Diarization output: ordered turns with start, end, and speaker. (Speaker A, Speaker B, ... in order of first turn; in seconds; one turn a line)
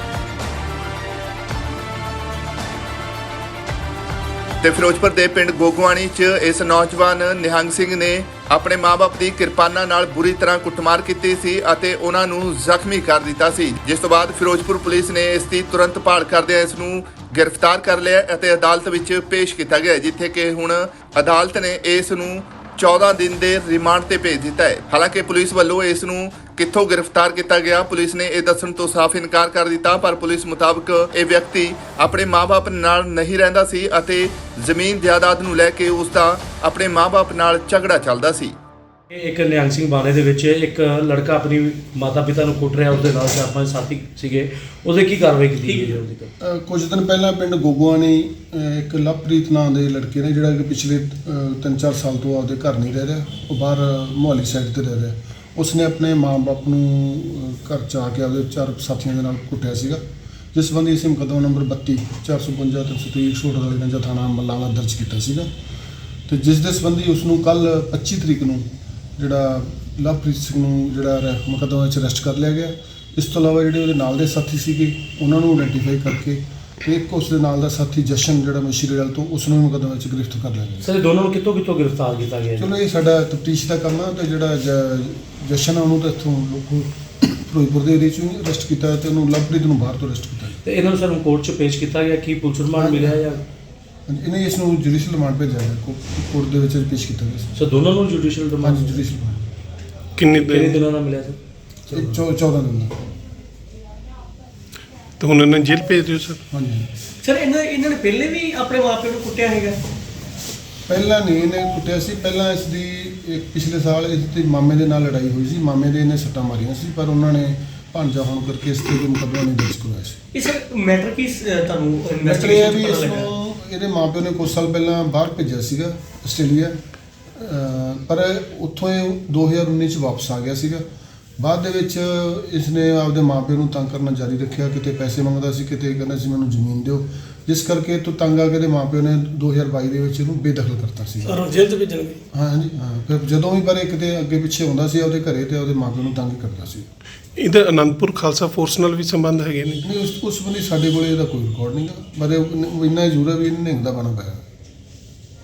Speaker A: 4.6-38.5
Speaker B: 39.1-46.3
Speaker C: 46.4-60.0
Speaker C: 60.5-65.5
Speaker C: 66.3-80.9
Speaker B: 80.8-82.7
Speaker C: 82.6-90.6
Speaker B: 90.6-93.4
Speaker C: 92.7-93.2
Speaker C: 94.1-97.5
Speaker B: 97.6-99.0
Speaker C: 98.6-99.5
Speaker D: 100.2-100.8
Speaker B: 100.3-102.2
Speaker C: 101.9-103.1
Speaker D: 105.2-106.4
Speaker C: 106.5-106.9
Speaker E: 107.2-109.8
Speaker C: 110.9-120.2
Speaker E: 120.3-123.3
Speaker C: 122.3-126.8
Speaker C: 127.4-130.8
Speaker C: 131.4-141.4
Speaker E: 141.3-142.2
Speaker C: 142.3-146.9
Speaker D: 147.4-149.9
Speaker C: 149.8-154.4